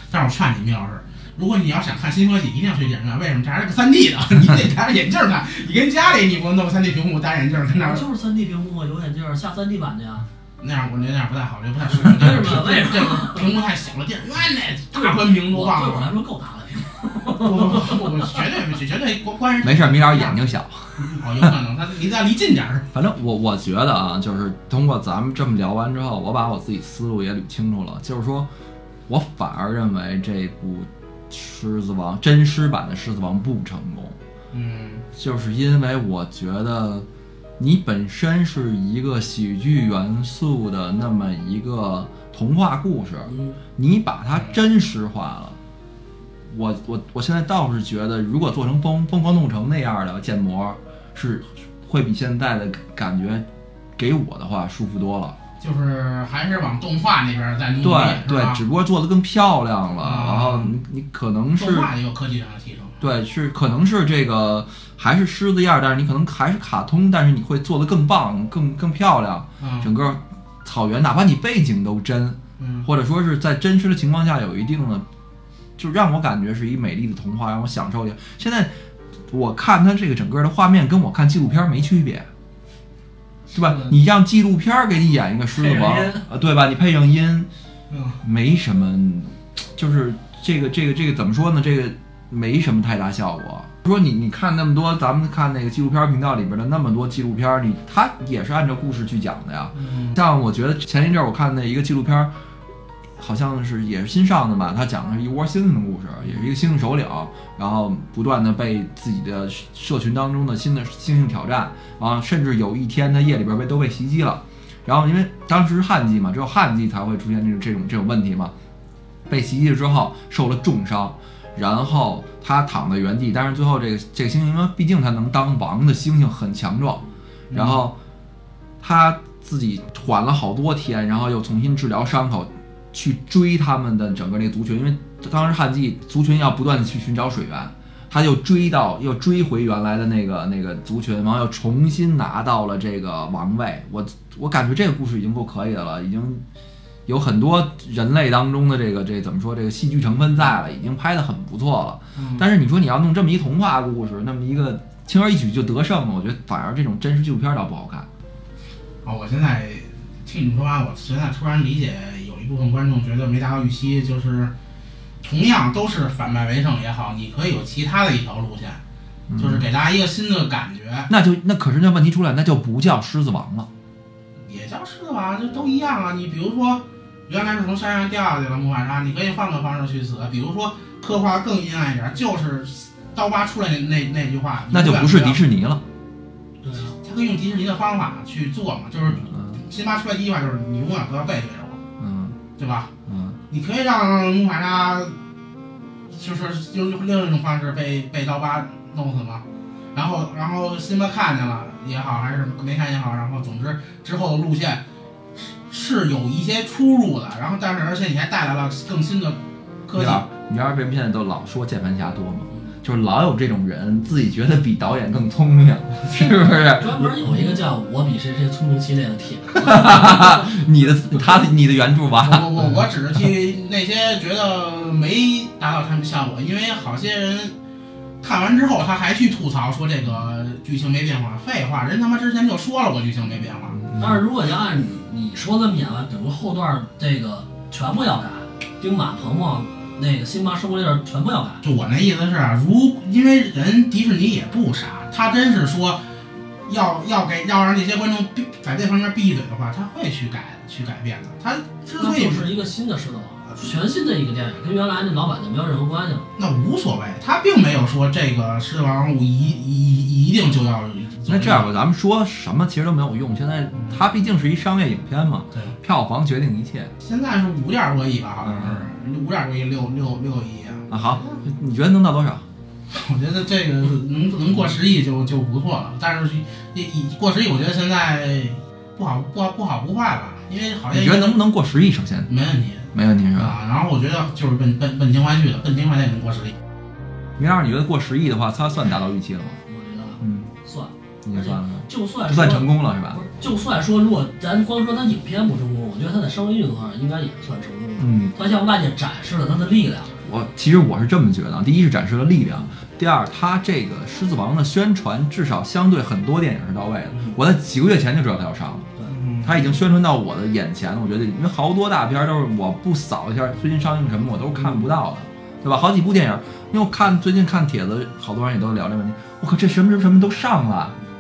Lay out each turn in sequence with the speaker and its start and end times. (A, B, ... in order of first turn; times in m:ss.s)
0:00.1-0:08.0 A
0:07.7-0:10.3 B
0:10.6-0:16.1 A
0:12.0-0:13.5 B
0:14.9-0:18.3 B
0:17.3-0:20.4 A
0:19.6-0:21.5 C
0:21.0-0:22.9 A
0:22.9-0:28.5 C
0:29.1-0:34.2 C
0:34.5-0:35.0 A
0:35.2-0:37.1 C
0:37.6-0:45.6 C
0:43.3-0:43.6 B
0:46.5-0:53.4 C
0:54.0-0:55.4 C
0:55.6-0:58.6 A
0:57.8-1:01.9 C
1:00.0-1:00.8 A
1:01.6-1:03.0 A
1:03.0-1:15.1 C
1:09.6-1:09.9 A
1:12.6-1:12.9 A
1:15.8-1:18.7 C
1:19.3-1:22.3 C
1:23.5-1:24.0 A
1:23.5-1:27.5 C
1:25.6-1:26.2 B
1:27.9-1:28.2 A
1:28.2-1:42.3 C
1:39.8-1:40.2 A
1:43.2-1:58.5 C
1:59.3-2:08.0 C
2:07.5-2:07.9 A
2:08.8-2:26.4 C
2:27.1-2:38.1 C
2:32.2-2:32.5 A
2:39.0-2:44.5 A
2:45.2-2:48.8 A
2:49.3-2:49.7 C
2:49.4-2:51.1 A
2:51.1-2:53.7 C
2:54.5-3:05.4 A
3:04.7-3:05.8 C
3:06.6-3:06.9 B
3:06.8-3:11.8 A
3:09.1-3:09.6 C
3:12.0-3:12.4 C
3:12.6-3:12.9 A
3:13.1-3:13.4 C
3:13.5-3:15.2 A
3:16.1-3:19.4 A
3:20.0-3:24.8 A
3:25.4-3:30.2 A
3:29.9-3:37.6 C
3:36.1-3:40.6 B
3:39.6-3:42.6 C
3:42.2-3:47.5 A
3:48.2-3:53.8 A
3:53.8-3:54.2 C
3:54.0-4:01.6 B
4:01.6-4:06.0 A
4:06.7-4:12.6 A
4:12.0-4:16.3 B
4:16.4-4:21.7 A
4:21.3-4:26.9 C
4:23.8-4:24.0 A
4:27.0-4:31.4 A
4:28.4-4:28.9 C
4:30.9-4:32.4 C
4:32.9-4:41.4 A
4:40.9-4:42.3 C
4:42.3-4:46.6 A
4:42.9-4:43.6 C
4:47.4-4:49.6 C
4:49.7-5:00.2 B
4:50.2-4:50.5 C
4:51.2-4:53.2 C
4:58.0-4:58.3 C
5:00.2-5:08.9 C
5:09.1-5:09.7 A
5:09.4-5:21.0 C